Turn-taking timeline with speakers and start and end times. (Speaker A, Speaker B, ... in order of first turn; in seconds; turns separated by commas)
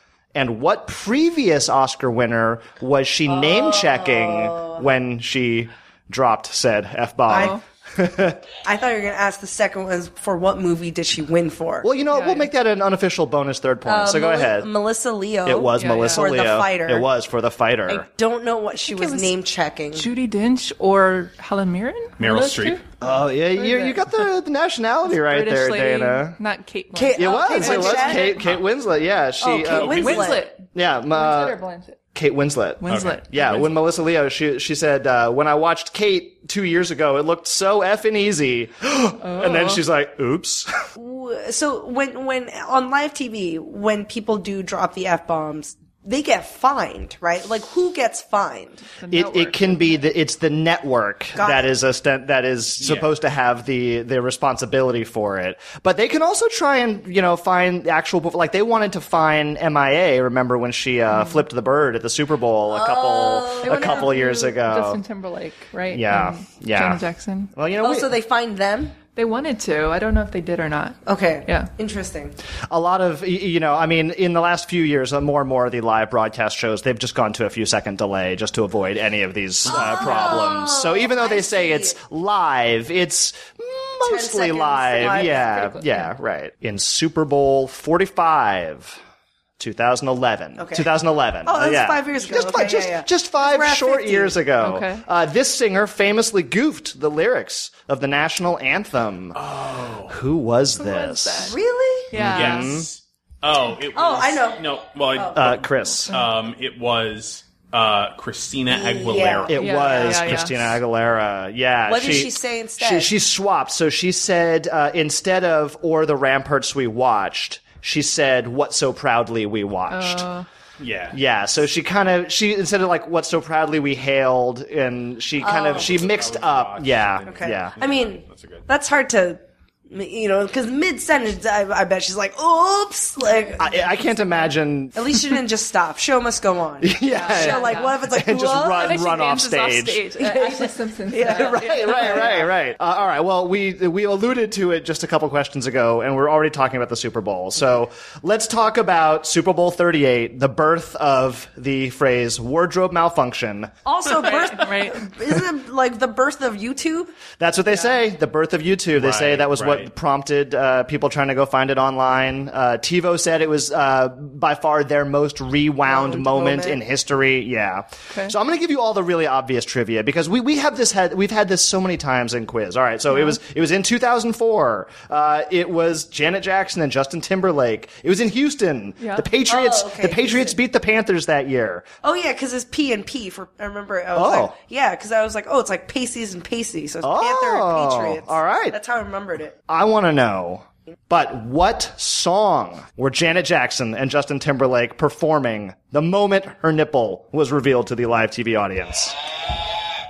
Speaker A: 0.3-8.4, Speaker B: 3.3-4.8, Speaker B: 7.3-7.6, Speaker C: 7.3-7.6, Speaker B: 8.6-11.9, Speaker A: 11.8-14.7, Speaker C: 12.1-12.5, Speaker B: 13.8-17.1, Speaker A: 15.4-18.1, Speaker C: 15.8-16.3, Speaker B: 17.9-20.1, Speaker C: 18.8-19.3, Speaker C: 19.9-24.1, Speaker D: 22.2-22.8, Speaker A: 23.0-26.4, Speaker C: 25.0-28.4, Speaker B: 26.9-28.4, Speaker A: 27.1-31.6, Speaker B: 29.4-30.5, Speaker D: 29.7-30.2, Speaker C: 29.9-32.0, Speaker A: 32.1-40.7, Speaker C: 32.8-33.8, Speaker D: 32.9-33.2, Speaker C: 39.2-39.8, Speaker B: 40.9-48.8, Speaker C: 49.0-50.0, Speaker A: 49.1-65.0, Speaker B: 51.4-51.7, Speaker D: 52.8-53.1, Speaker C: 61.1-61.4, Speaker B: 62.7-64.1, Speaker C: 63.6-67.5, Speaker A: 65.9-67.0, Speaker A: 67.5-68.1, Speaker B: 67.8-68.9, Speaker C: 69.2-71.7, Speaker B: 71.0-72.3, Speaker A: 72.7-89.0, Speaker B: 79.7-82.0, Speaker B: 84.0-85.5, Speaker C: 85.2-86.1, Speaker A: 89.6-99.4, Speaker B: 90.6-90.9, Speaker B: 91.4-94.4, Speaker C: 94.6-95.0, Speaker D: 99.3-100.1, Speaker A: 100.1-101.6, Speaker C: 100.8-101.6, Speaker B: 101.4-102.1, Speaker C: 102.1-102.8, Speaker A: 102.1-102.9, Speaker D: 102.2-109.7, Speaker B: 103.9-104.6, Speaker B: 105.1-105.4, Speaker A: 105.3-106.1, Speaker B: 108.7-110.1, Speaker A: 109.5-120.3, Speaker C: 109.5-110.7, Speaker B: 111.8-113.1, Speaker C: 119.9-120.5, Speaker D: 120.8-121.2, Speaker A: 121.1-127.8, Speaker B: 125.4-126.0, Speaker D: 125.6-128.7, Speaker B: 127.2-133.6, Speaker A: 133.6-135.3, Speaker B: 134.9-138.9, Speaker A: 136.8-140.0, Speaker C: 137.0-138.0, Speaker C: 138.7-142.4, Speaker B: 140.2-142.5, Speaker A: 141.3-153.7, Speaker B: 153.8-157.1, Speaker C: 154.2-155.0, Speaker A: 157.4-181.8, Speaker D: 158.9-159.9, Speaker B: 165.8-166.8, Speaker C: 173.1-173.4, Speaker C: 179.0-179.3, Speaker B: 179.5-180.6, Speaker B: 182.0-189.5, Speaker A: 184.1-184.5, Speaker A: 187.0-188.8, Speaker A: 189.7-199.2